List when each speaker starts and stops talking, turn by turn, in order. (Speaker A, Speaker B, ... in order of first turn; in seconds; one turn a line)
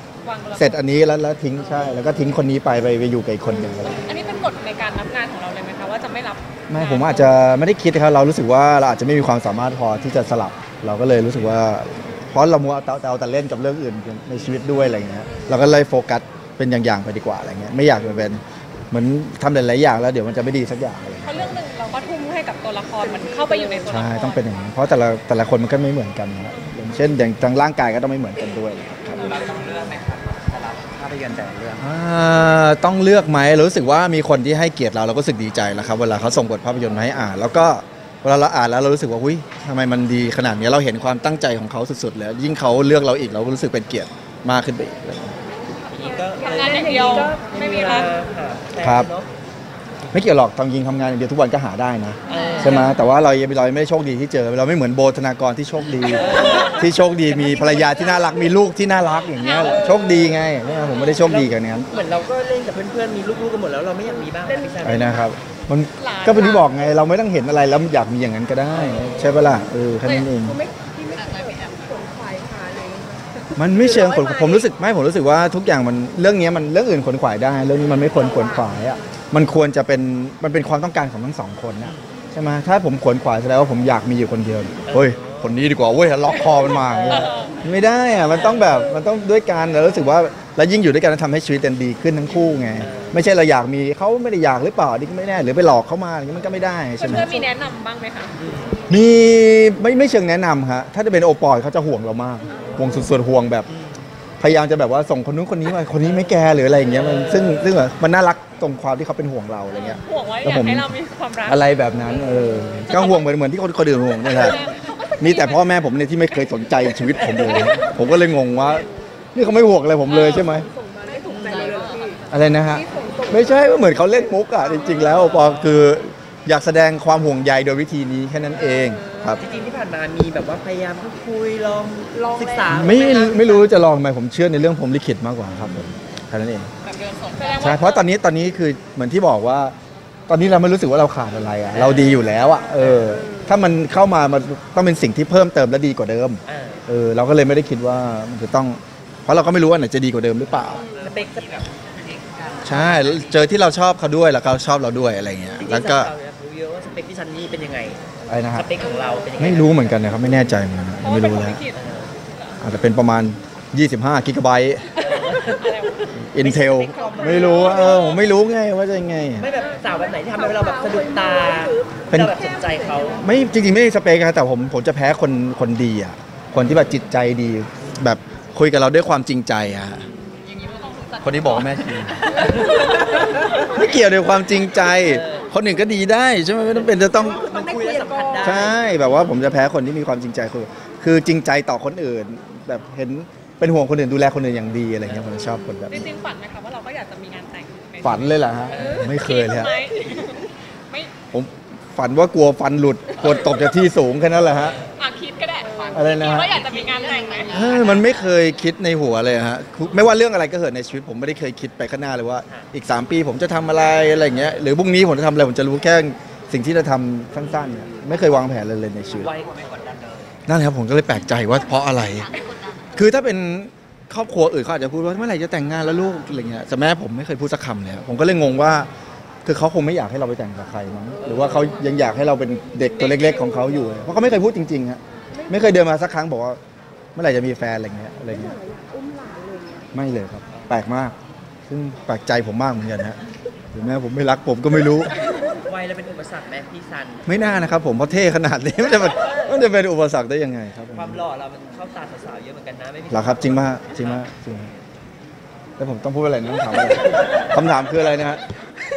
Speaker A: 0.2-0.9
Speaker B: 0.6-4.0
Speaker A: 3.9-7.4
Speaker B: 6.7-21.6
Speaker A: 21.2-24.4
Speaker C: 23.2-23.8
Speaker B: 23.9-29.6
Speaker A: 29.2-29.8
Speaker D: 30.6-31.8
Speaker B: 31.8-45.4
Speaker D: 45.9-49.3
Speaker A: 46.1-48.1
Speaker C: 46.4-48.1
Speaker B: 48.8-49.1
Speaker B: 50.1-61.9
Speaker D: 52.3-52.9
Speaker A: 52.3-52.9
Speaker D: 56.0-56.9
Speaker A: 56.3-58.2
Speaker A: 59.4-60.0
Speaker D: 61.2-65.2
Speaker C: 64.4-65.0
Speaker B: 64.8-70.6
Speaker A: 66.0-66.7
Speaker D: 68.7-69.2
Speaker A: 70.0-70.3
Speaker C: 70.4-74.7
Speaker B: 73.6-97.3
Speaker C: 78.2-78.8
Speaker D: 81.8-82.1
Speaker D: 84.9-85.6
Speaker D: 86.7-87.5
Speaker A: 87.1-87.5
Speaker D: 88.3-88.6
Speaker D: 92.8-93.2
Speaker A: 97.0-98.4
Speaker D: 98.4-98.9
Speaker B: 98.9-103.7
Speaker A: 102.5-102.9
Speaker D: 103.7-104.1
Speaker B: 104.4-114.6
Speaker D: 106.0-107.8
Speaker A: 109.7-111.7
Speaker A: 112.9-113.3
Speaker A: 114.1-115.8
Speaker B: 115.2-120.7
Speaker A: 116.3-117.9
Speaker D: 117.4-117.8
Speaker A: 120.1-120.5
Speaker C: 120.5-123.7
Speaker D: 121.3-121.8
Speaker B: 122.3-129.4
Speaker D: 125.0-126.0
Speaker D: 129.4-133.7
Speaker C: 132.2-132.6
Speaker B: 132.7-136.7
Speaker A: 137.2-138.1
Speaker B: 137.6-139.8
Speaker B: 140.3-150.8
Speaker D: 141.7-143.2
Speaker D: 146.5-146.8
Speaker D: 150.8-151.7
Speaker D: 152.3-153.3
Speaker B: 152.6-156.1
Speaker D: 155.6-158.0
Speaker B: 158.3-158.7
Speaker D: 158.5-160.0
Speaker B: 159.4-161.6
Speaker A: 161.0-162.6
Speaker D: 161.7-162.1
Speaker B: 162.6-164.9
Speaker D: 165.0-168.0
Speaker A: 165.3-166.1
Speaker B: 166.3-169.5
Speaker A: 166.9-168.3
Speaker D: 169.4-173.2
Speaker C: 169.8-173.2
Speaker B: 172.1-172.4
Speaker B: 173.2-180.1
Speaker B: 181.2-187.6
Speaker D: 184.8-185.5
Speaker D: 186.7-188.8
Speaker C: 187.5-188.6
Speaker B: 188.4-196.1
Speaker A: 195.9-201.1
Speaker B: 198.0-199.8
Speaker D: 198.7-199.0
Speaker B: 201.3-204.8
Speaker A: 204.9-208.0
Speaker B: 205.9-206.7
Speaker B: 207.5-219.4
Speaker D: 219.2-220.2
Speaker B: 220.5-222.3
Speaker B: 222.9-228.9
Speaker B: 229.4-236.6
Speaker D: 231.2-231.7
Speaker A: 233.0-234.0
Speaker B: 237.2-238.6
Speaker C: 238.3-239.9
Speaker B: 239.9-241.2
Speaker B: 241.7-243.2
Speaker B: 243.7-245.2
Speaker D: 245.3-247.3
Speaker B: 247.3-251.2
Speaker D: 249.1-249.5
Speaker D: 250.9-254.2
Speaker B: 253.1-254.7
Speaker B: 255.8-258.4